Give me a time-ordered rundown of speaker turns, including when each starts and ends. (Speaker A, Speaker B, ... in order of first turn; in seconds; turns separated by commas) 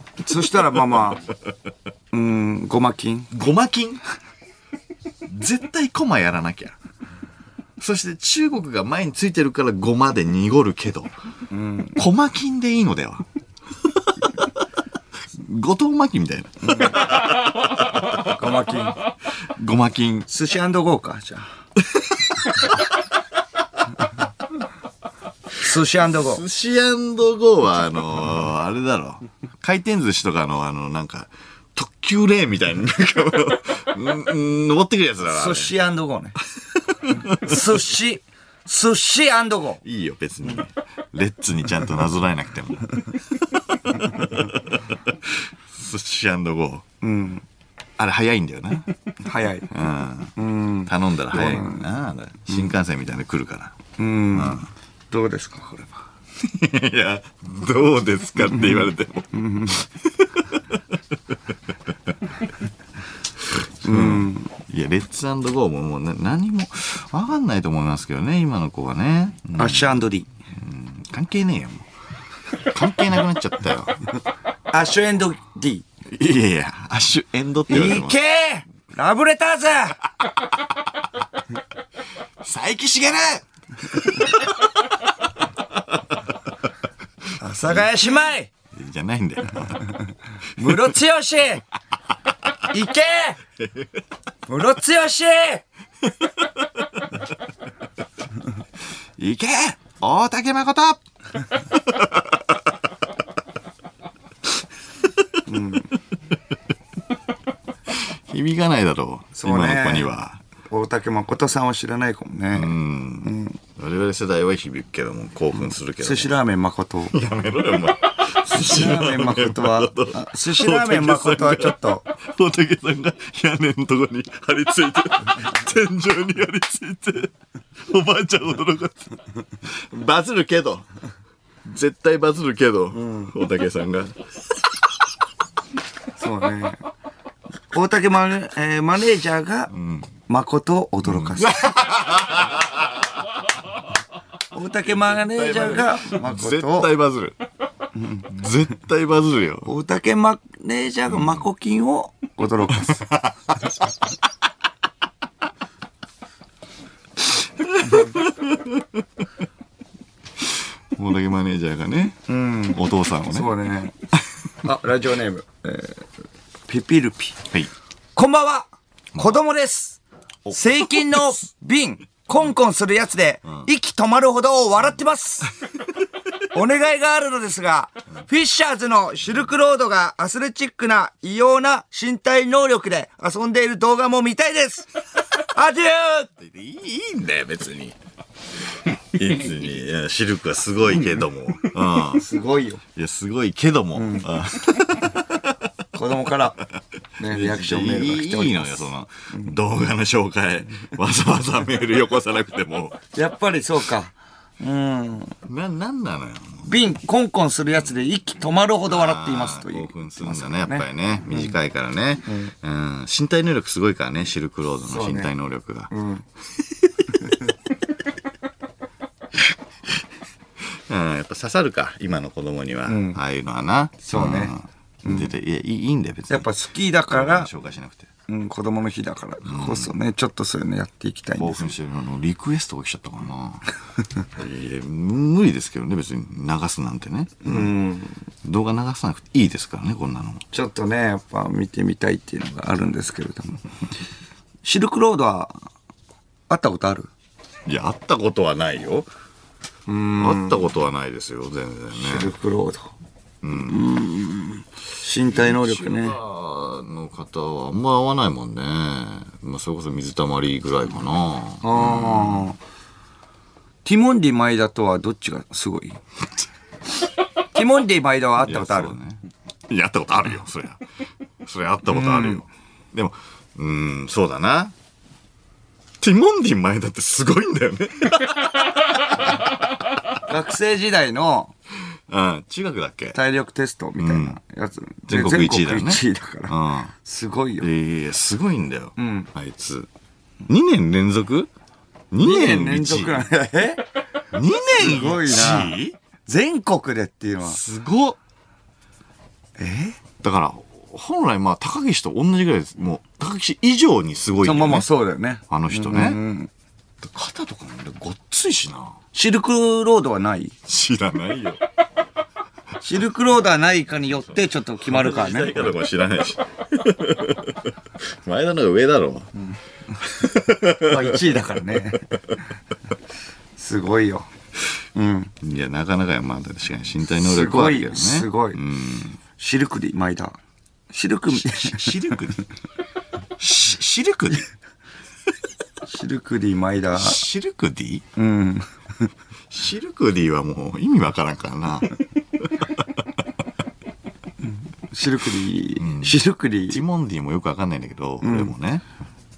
Speaker A: 0.2-1.2, Speaker A: 2.1-3.3, Speaker B: 3.3-4.0, Speaker B: 5.2-6.7, Speaker B: 7.8-11.1, Speaker A: 11.5-12.0, Speaker B: 11.9-13.2, Speaker B: 13.8-14.6, Speaker B: 15.3-18.2, Speaker A: 16.7-17.0, Speaker A: 18.2-19.0, Speaker B: 19.5-20.3, Speaker A: 20.3-21.5, Speaker B: 21.9-22.7, Speaker A: 25.6-26.4, Speaker B: 26.1-35.7, Speaker A: 35.2-36.3, Speaker B: 36.9-37.5, Speaker A: 37.4-39.8, Speaker B: 39.8-46.8, Speaker A: 47.0-47.4, Speaker B: 48.0-48.9, Speaker A: 49.2-49.7, Speaker B: 49.7-53.8, Speaker A: 50.4-51.8, Speaker A: 54.0-54.6, Speaker B: 54.3-54.7, Speaker A: 55.1-56.0, Speaker B: 56.4-61.0, Speaker A: 59.3-59.8, Speaker B: 63.5-70.0, Speaker A: 63.8-64.5, Speaker A: 69.6-70.3, Speaker B: 70.6-71.8, Speaker B: 72.5-74.0, Speaker A: 74.7-75.8, Speaker B: 76.1-78.2, Speaker A: 77.7-80.1, Speaker B: 82.4-84.9, Speaker A: 87.4-88.5, Speaker B: 87.5-87.9, Speaker B: 88.7-90.0, Speaker A: 90.6-91.6, Speaker A: 92.7-93.4, Speaker B: 93.6-93.9, Speaker A: 94.5-95.6, Speaker B: 96.2-97.0, Speaker B: 99.2-101.0, Speaker B: 101.7-102.5, Speaker A: 105.5-105.9, Speaker B: 107.9-110.4, Speaker A: 109.3-110.1, Speaker A: 110.7-113.6, Speaker B: 112.5-116.3, Speaker A: 116.0-117.2, Speaker B: 117.1-130.8, Speaker A: 118.5-122.0, Speaker B: 131.6-134.2, Speaker A: 132.9-133.3, Speaker A: 136.2-136.8, Speaker A: 137.7-139.7, Speaker B: 139.7-140.1, Speaker A: 140.3-141.7, Speaker B: 141.1-143.0, Speaker A: 144.5-146.9, Speaker B: 144.8-147.4, Speaker A: 147.9-148.3, Speaker B: 148.2-149.7, Speaker A: 149.6-153.1, Speaker B: 152.8-153.3, Speaker B: 157.3-159.0, Speaker B: 160.4-163.5, Speaker A: 162.3-164.0, Speaker A: 164.6-166.0, Speaker A: 166.7-167.4, Speaker A: 168.2-170.0, Speaker B: 170.4-171.4, Speaker A: 170.5-175.5, Speaker A: 176.5-186.3, Speaker B: 186.4-187.9, Speaker B: 189.1-192.2, Speaker A: 192.1-192.8, Speaker B: 192.9-195.5, Speaker A: 194.0-194.2, Speaker A: 195.9-196.6, Speaker A: 197.2-199.5, Speaker B: 197.3-203.0, Speaker A: 203.1-205.3, Speaker B: 205.5-206.7, Speaker A: 206.7-211.5, Speaker B: 208.9-215.9, Speaker A: 214.8-215.3, Speaker A: 215.9-216.2, Speaker B: 220.9-226.5, Speaker A: 222.9-223.2, Speaker A: 224.1-224.5, Speaker A: 226.3-227.5, Speaker B: 227.1-228.1, Speaker A: 228.3-231.7, Speaker B: 229.4-229.9, Speaker B: 231.3-233.7, Speaker B: 234.3-237.7, Speaker A: 237.4-238.2, Speaker B: 238.4-240.4, Speaker A: 240.5-243.6, Speaker A: 244.6-245.5, Speaker A: 246.5-247.1, Speaker B: 247.7-249.1, Speaker A: 249.9-250.6, Speaker B: 250.1-252.3, Speaker A: 251.9-252.9, Speaker B: 253.4-253.9, Speaker A: 253.7-256.2, Speaker B: 255.3-262.5, Speaker A: 261.6-262.6, Speaker A: 263.8-266.0, Speaker A: 267.5-268.9, Speaker B: 268.4-270.8, Speaker B: 271.4-274.7, Speaker A: 271.9-272.4, Speaker B: 276.0-279.3, Speaker A: 280.3-281.5, Speaker B: 282.1-283.2, Speaker A: 283.1-287.7, Speaker B: 284.0-284.4, Speaker B: 285.1-286.9, Speaker B: 287.6-289.9, Speaker A: 289.0-289.3, Speaker B: 290.4-291.5, Speaker B: 292.1-293.2, Speaker A: 292.2-293.8, Speaker B: 294.3-295.9, Speaker A: 294.7-297.6, Speaker B: 297.4-298.2, Speaker A: 299.6-300.0, Speaker B: 300.2-304.9, Speaker A: 304.4-306.5, Speaker B: 305.5-306.2, Speaker B: 307.0-309.0, Speaker A: 309.1-310.5, Speaker B: 310.6-311.6, Speaker A: 312.8-315.7, Speaker B: 314.9-319.3, Speaker B: 319.9-321.1, Speaker A: 320.8-322.1, Speaker A: 323.6-324.3, Speaker A: 324.9-325.3, Speaker B: 325.4-329.2, Speaker A: 327.2-328.6, Speaker A: 329.4-330.4, Speaker A: 330.9-332.0, Speaker B: 331.3-332.5, Speaker B: 333.4-334.5, Speaker A: 335.9-337.2, Speaker B: 336.9-338.0, Speaker A: 338.1-339.1, Speaker B: 339.5-342.8, Speaker A: 344.9-346.8, Speaker B: 345.8-346.1, Speaker B: 346.7-348.8, Speaker A: 348.2-348.5